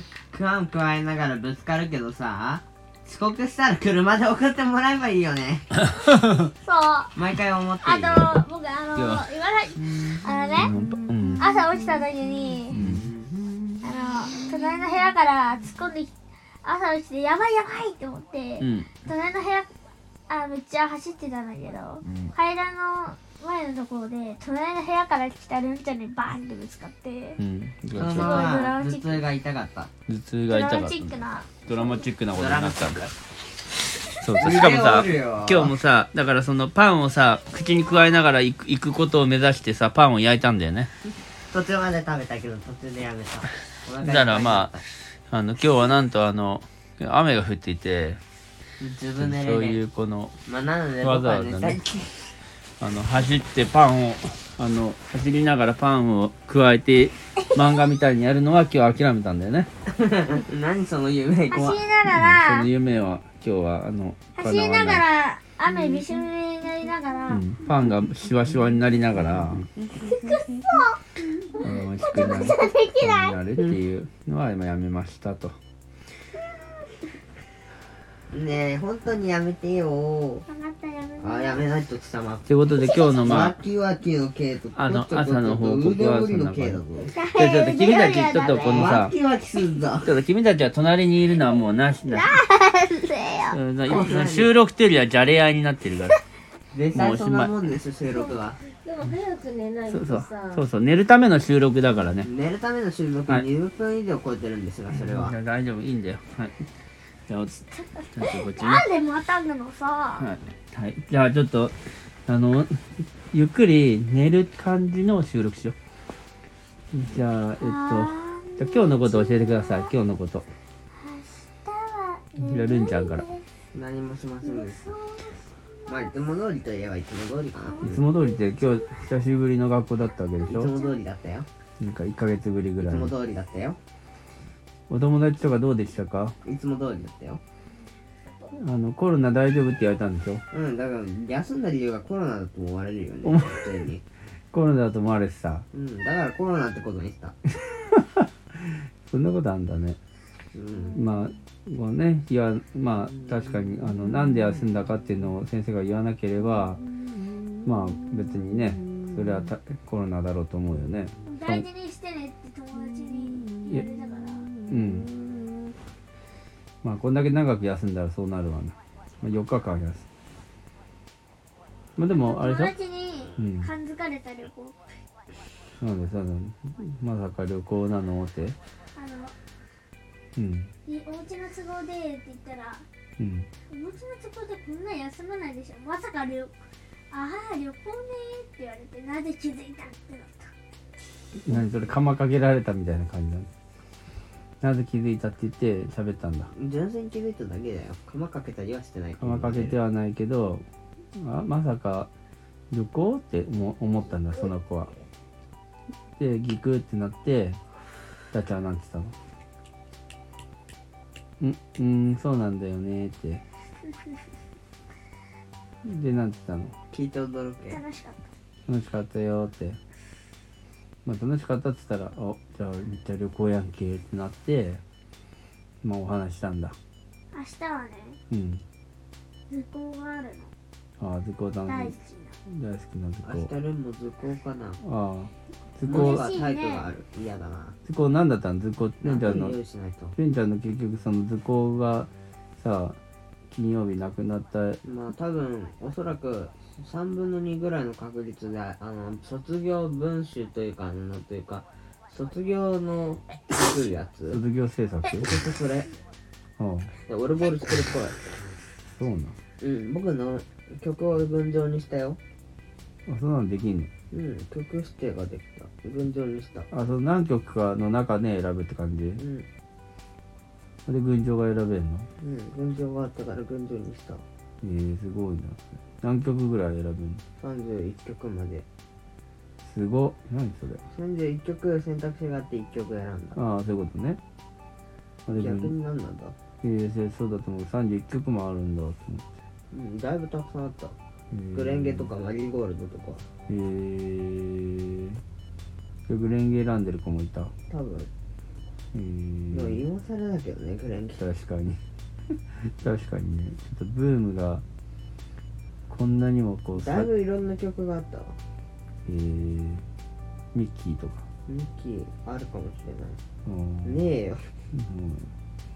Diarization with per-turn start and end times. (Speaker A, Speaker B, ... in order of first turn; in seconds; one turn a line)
Speaker A: 0.3-5.7
Speaker B: 5.8-6.5
Speaker C: 6.6-7.2
Speaker A: 7.2-8.4
Speaker C: 7.8-10.7
Speaker B: 9.0-9.3
Speaker B: 10.6-11.6
Speaker C: 11.4-12.8
Speaker B: 12.7-13.1
Speaker A: 12.7-13.5
Speaker C: 13.8-19.7
Speaker B: 18.6-19.0
Speaker C: 20.3-27.4
Speaker B: 22.0-22.3
Speaker B: 27.4-28.5
Speaker A: 27.9-29.9
Speaker C: 28.1-29.2
Speaker B: 30.1-33.1
Speaker C: 30.5-32.0
Speaker A: 32.3-33.1
Speaker B: 34.2-40.9
Speaker A: 34.4-35.8
Speaker A: 41.5-44.8
Speaker B: 44.0-44.7
Speaker B: 45.3-48.2
Speaker A: 48.8-49.8
Speaker B: 49.2-50.4
Speaker A: 50.5-52.1
Speaker B: 51.0-51.8
Speaker B: 52.8-59.7
Speaker A: 60.0-61.9
Speaker C: 61.5-62.7
Speaker B: 62.1-65.1
Speaker C: 64.3-67.5
Speaker B: 67.3-69.7
Speaker A: 69.8-70.4
Speaker C: 70.0-73.3
Speaker B: 71.6-75.6
Speaker A: 78.3-80.5
Speaker C: 80.5-81.7
Speaker A: 81.2-82.5
Speaker B: 82.5-83.6
Speaker C: 82.7-83.3
Speaker A: 83.2-87.1
Speaker B: 84.7-86.8
Speaker C: 87.1-89.0
Speaker B: 87.3-89.1
Speaker A: 88.7-90.1
Speaker B: 90.0-92.4
Speaker C: 92.1-93.6
Speaker B: 93.5-96.2
Speaker A: 93.9-94.5
Speaker A: 96.7-98.6
Speaker B: 96.9-97.5
Speaker D: 98.7-100.7
Speaker B: 99.9-102.3
Speaker A: 102.2-105.3
Speaker B: 104.9-106.5
Speaker B: 107.3-108.8
Speaker C: 108.4-110.3
Speaker B: 110.2-111.8
Speaker B: 112.3-115.8
Speaker B: 116.9-120.5
Speaker C: 117.6-119.9
Speaker C: 120.9-123.4
Speaker B: 122.4-123.3
Speaker A: 123.7-125.0
Speaker C: 124.4-126.3
Speaker A: 125.9-128.0
Speaker C: 127.6-128.4
Speaker B: 127.8-130.7
Speaker A: 130.5-131.5
Speaker B: 131.8-133.1
Speaker A: 132.8-133.8
Speaker B: 134.9-136.3
Speaker A: 136.4-137.4
Speaker B: 138.5-140.4
Speaker A: 140.5-144.0
Speaker B: 143.2-143.7
Speaker B: 144.5-145.7
Speaker A: 145.7-147.3
Speaker B: 147.6-150.0
Speaker A: 150.5-151.0
Speaker D: 150.7-151.2
Speaker B: 150.9-156.8
Speaker B: 157.6-161.7
Speaker C: 161.3-164.6
Speaker B: 164.7-165.1
Speaker B: 166.8-170.1
Speaker B: 172.0-172.7
Speaker C: 172.1-174.8
Speaker B: 173.4-173.7
Speaker B: 175.8-178.6
Speaker C: 178.9-179.3
Speaker B: 180.4-180.7
Speaker C: 180.9-182.8
Speaker B: 183.2-183.5
Speaker C: 183.7-186.5
Speaker C: 187.1-190.5
Speaker B: 191.3-193.5
Speaker B: 194.6-196.5
Speaker A: 196.5-199.8
Speaker B: 199.2-202.1
Speaker B: 202.7-204.9
Speaker B: 206.2-207.6
Speaker B: 208.3-209.1
Speaker B: 211.4-213.4
Speaker B: 215.8-216.8
Speaker A: 216.9-217.8
Speaker C: 217.7-218.2
Speaker B: 218.7-219.8
Speaker B: 221.1-224.8
Speaker B: 225.8-226.8
Speaker C: 227.3-228.2
Speaker B: 228.3-228.6
Speaker C: 229.5-230.5
Speaker B: 231.0-232.0
Speaker C: 231.7-232.4
Speaker B: 232.5-233.5
Speaker A: 233.2-234.8
Speaker B: 234.8-236.3
Speaker A: 235.8-237.8
Speaker C: 235.9-236.9
Speaker B: 237.8-239.6
Speaker A: 239.0-240.2
Speaker B: 240.2-243.0
Speaker B: 243.5-244.8
Speaker A: 244.8-254.4
Speaker B: 254.3-255.4
Speaker A: 255.2-255.9
Speaker B: 256.6-256.9
Speaker A: 257.1-258.3
Speaker B: 259.0-259.4
Speaker A: 259.6-262.2
Speaker B: 263.1-263.9
Speaker A: 264.1-266.7
Speaker B: 266.7-269.2
Speaker A: 269.2-269.5
Speaker B: 270.9-272.1
Speaker A: 272.2-274.2
Speaker B: 274.6-277.2
Speaker A: 277.4-278.7
Speaker B: 279.6-280.8
Speaker A: 280.9-283.4
Speaker B: 283.4-284.2
Speaker B: 285.3-285.7
Speaker A: 285.3-286.4
Speaker B: 286.6-289.3
Speaker A: 289.7-291.0
Speaker B: 291.3-292.1
Speaker A: 291.5-293.2
Speaker B: 293.5-295.2
Speaker B: 296.1-297.5
Speaker A: 297.7-298.1
Speaker B: 298.9-299.8
Speaker A: 299.5-301.2
Speaker B: 301.2-301.8
Speaker B: 302.5-304.6
Speaker B: 305.9-307.1
Speaker A: 306.7-308.4
Speaker B: 309.1-309.9
Speaker B: 310.5-311.3
Speaker A: 311.5-313.2
Speaker B: 313.4-314.1
Speaker A: 313.8-314.5
Speaker B: 314.7-315.3